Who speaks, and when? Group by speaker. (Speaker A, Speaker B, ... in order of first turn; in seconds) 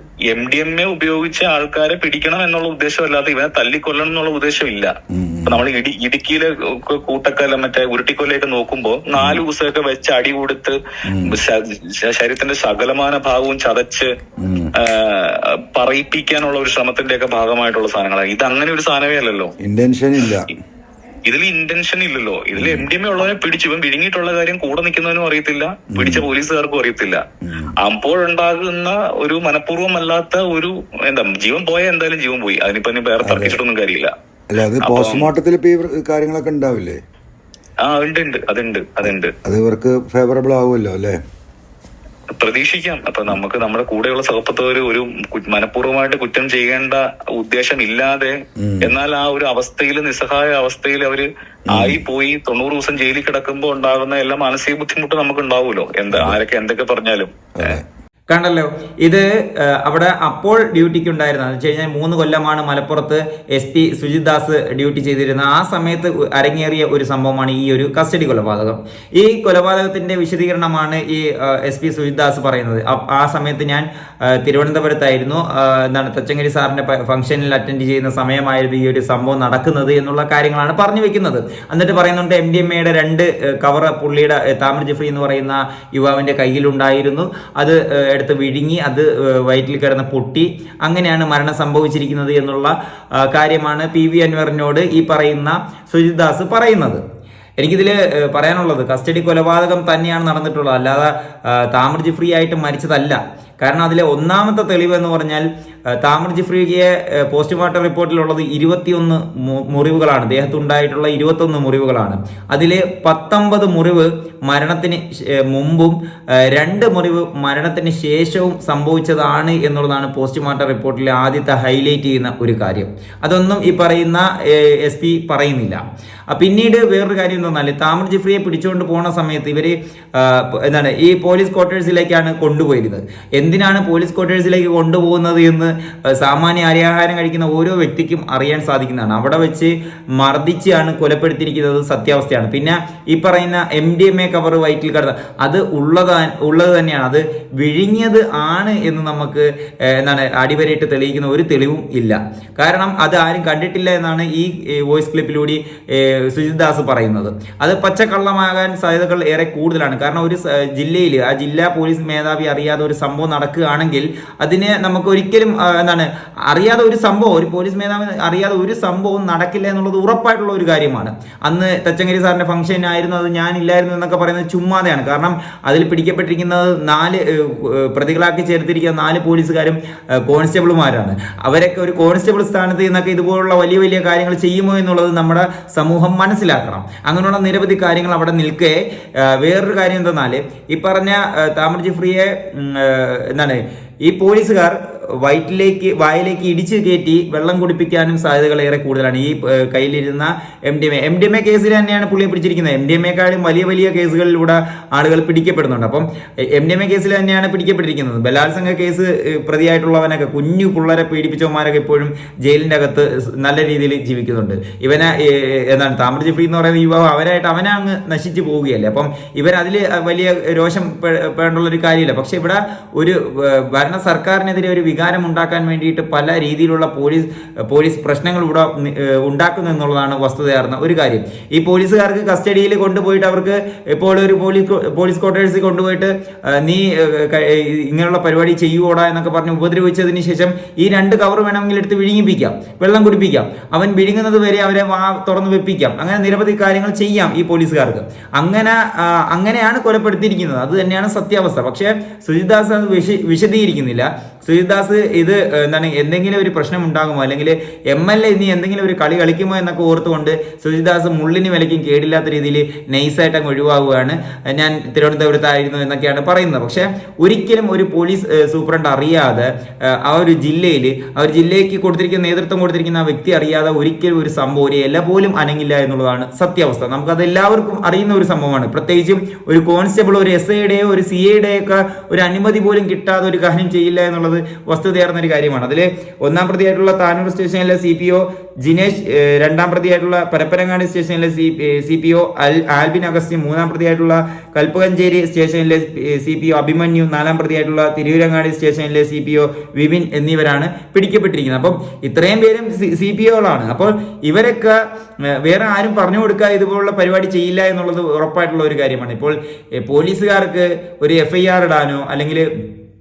Speaker A: 0.3-4.9, 5.5-14.1, 14.8-19.5, 21.3-27.2, 27.8-34.1, 34.8-35.3, 37.8-39.3, 42.4-57.8
Speaker B: 5.1-5.6, 9.2-9.4, 11.1-11.4, 14.4-14.7, 19.6-20.5, 22.6-22.9, 25.9-26.3, 27.4-27.7, 33.2-33.6, 34.5-37.0, 39.1-41.2, 48.6-49.0, 51.7-52.0, 56.1-56.4, 57.6-57.9
Speaker C: 58.3-97.0, 97.6-304.8, 305.4-312.5